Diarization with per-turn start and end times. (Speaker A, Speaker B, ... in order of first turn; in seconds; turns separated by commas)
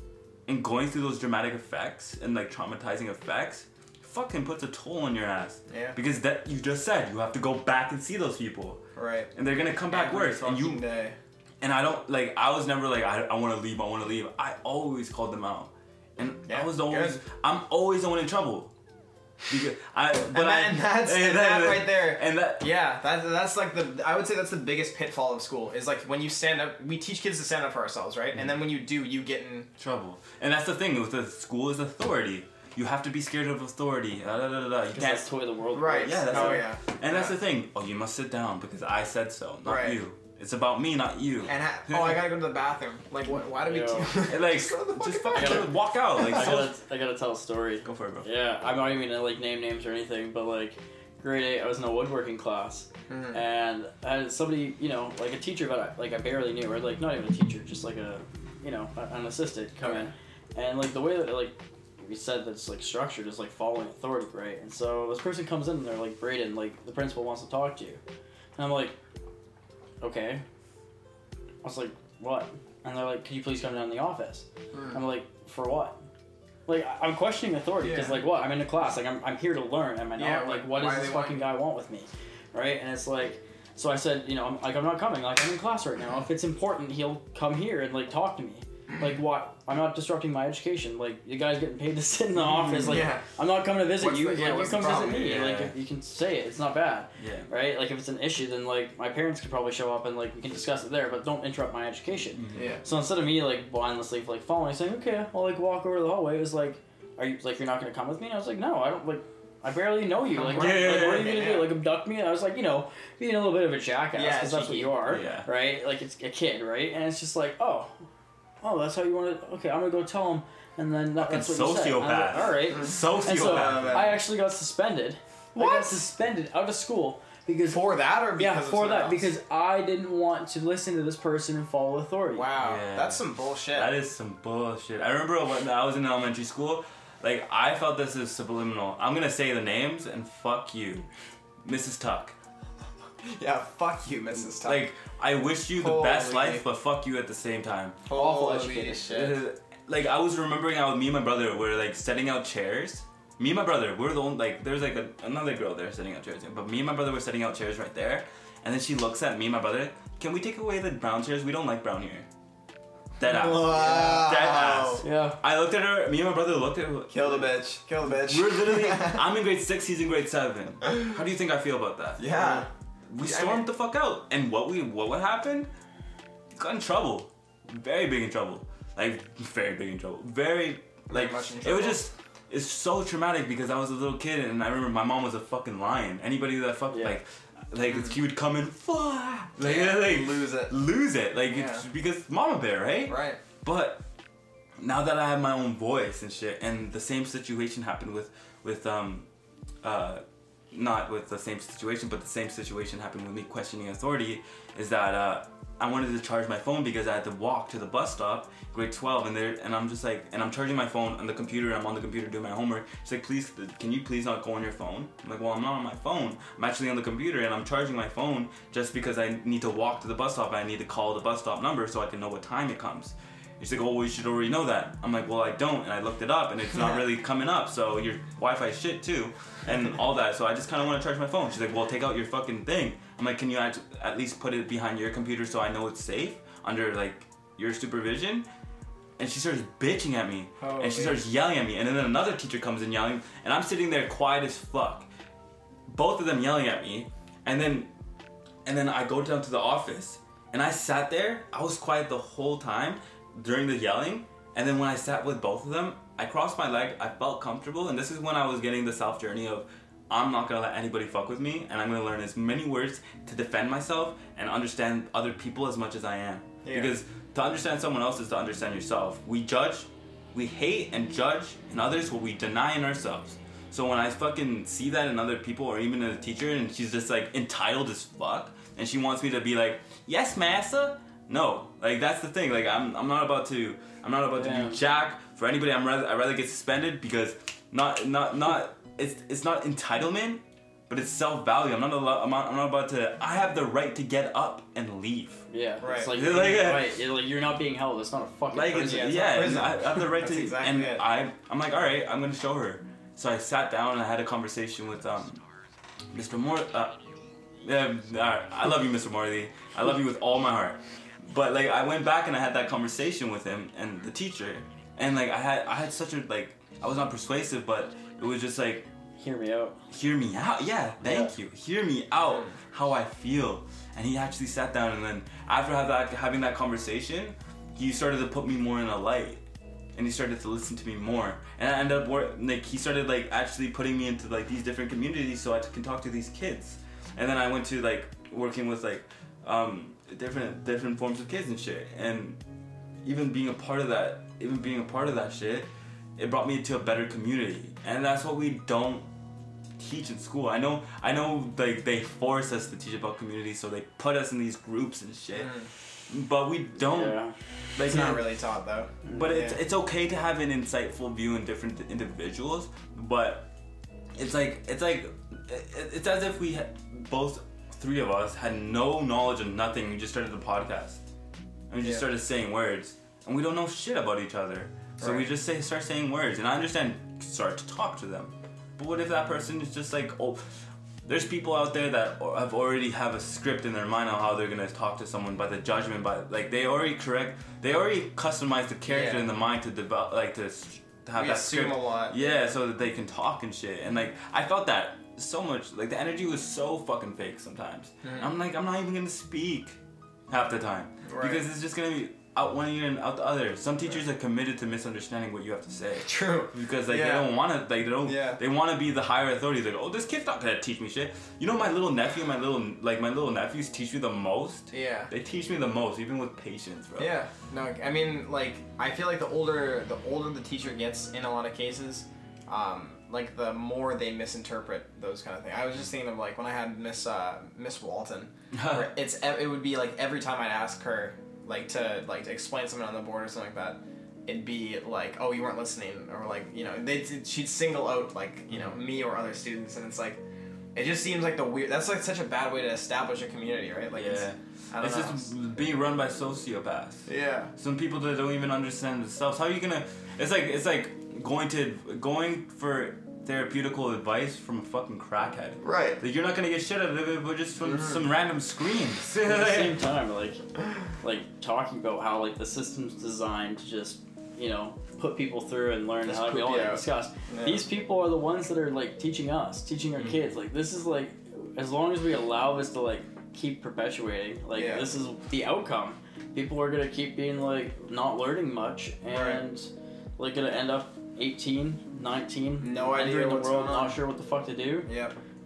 Speaker A: 0.5-8.8, Speaker B: 5.7-6.0, Speaker B: 8.9-9.3, Speaker A: 9.3-10.8, Speaker B: 9.9-11.2, Speaker A: 11.6-18.7, Speaker B: 16.5-17.2, Speaker A: 19.5-22.7, Speaker B: 20.3-29.7, Speaker A: 29.8-35.3, Speaker C: 34.9-36.7, Speaker B: 35.7-37.3, Speaker A: 36.0-42.3, Speaker B: 39.6-40.0, Speaker B: 41.5-45.7, Speaker C: 43.6-44.1, Speaker A: 44.2-46.7, Speaker C: 45.3-68.0, Speaker A: 47.8-48.3, Speaker B: 53.1-53.4, Speaker B: 59.8-60.1, Speaker C: 68.6-68.9, Speaker C: 70.0-70.4, Speaker C: 71.6-76.0, Speaker B: 74.7-75.0, Speaker C: 76.7-117.9, Speaker B: 77.8-78.2, Speaker B: 80.2-81.5, Speaker B: 92.5-93.2, Speaker B: 94.0-95.4, Speaker A: 94.8-95.7, Speaker A: 97.2-97.5, Speaker A: 102.3-102.7, Speaker B: 102.5-102.8, Speaker B: 110.3-111.7, Speaker A: 110.6-111.4, Speaker B: 114.1-115.0, Speaker A: 115.0-115.5, Speaker C: 118.6-127.8, Speaker A: 121.2-124.1, Speaker B: 122.7-124.2, Speaker B: 125.5-126.0, Speaker B: 127.7-129.3, Speaker C: 128.3-132.5, Speaker B: 132.3-133.9, Speaker A: 132.6-141.1, Speaker A: 141.6-142.3, Speaker B: 143.2-144.9, Speaker A: 144.4-148.0, Speaker B: 145.7-146.6, Speaker B: 148.1-149.4, Speaker C: 148.1-149.0, Speaker A: 149.1-162.3, Speaker A: 163.2-175.7, Speaker B: 163.2-165.0, Speaker C: 165.0-165.4, Speaker B: 167.1-169.2, Speaker B: 172.2-172.7, Speaker B: 173.2-173.7, Speaker A: 176.6-194.0, Speaker B: 181.1-182.1, Speaker C: 186.9-187.2, Speaker B: 189.6-190.7, Speaker B: 191.5-191.8, Speaker B: 193.1-193.4, Speaker A: 194.8-199.3, Speaker A: 199.8-238.5, Speaker A: 239.2-245.1, Speaker B: 240.6-241.2, Speaker A: 245.9-247.9, Speaker A: 248.6-295.4, Speaker B: 266.6-266.9, Speaker C: 284.4-284.8, Speaker C: 295.5-299.5, Speaker B: 295.8-296.1, Speaker A: 296.1-296.9, Speaker A: 298.5-305.4, Speaker B: 298.7-301.0, Speaker A: 306.1-307.0, Speaker A: 307.6-318.9, Speaker C: 319.2-319.8, Speaker A: 319.9-329.4, Speaker A: 329.9-342.4, Speaker A: 343.0-349.1, Speaker A: 349.8-357.2, Speaker B: 355.4-355.7, Speaker C: 356.9-357.3, Speaker A: 357.8-358.2, Speaker B: 357.8-359.6, Speaker A: 359.1-363.5, Speaker A: 364.1-371.0, Speaker A: 371.7-380.5, Speaker B: 371.8-372.1, Speaker B: 375.0-375.3, Speaker A: 381.0-399.8, Speaker B: 388.9-389.2, Speaker B: 391.1-392.2, Speaker B: 398.0-398.3, Speaker A: 400.3-417.2, Speaker B: 401.1-401.4, Speaker B: 406.0-407.3, Speaker B: 408.0-408.4, Speaker B: 414.7-415.1, Speaker B: 417.0-440.2, Speaker A: 428.5-428.9, Speaker B: 440.7-445.3, Speaker A: 443.9-459.8, Speaker B: 447.1-447.5, Speaker B: 455.6-456.0, Speaker B: 457.6-458.0, Speaker C: 459.2-460.4, Speaker C: 461.0-484.9, Speaker B: 466.0-467.6, Speaker A: 470.0-470.3, Speaker B: 474.5-474.9, Speaker B: 479.1-479.4, Speaker B: 482.6-484.0, Speaker B: 484.9-485.1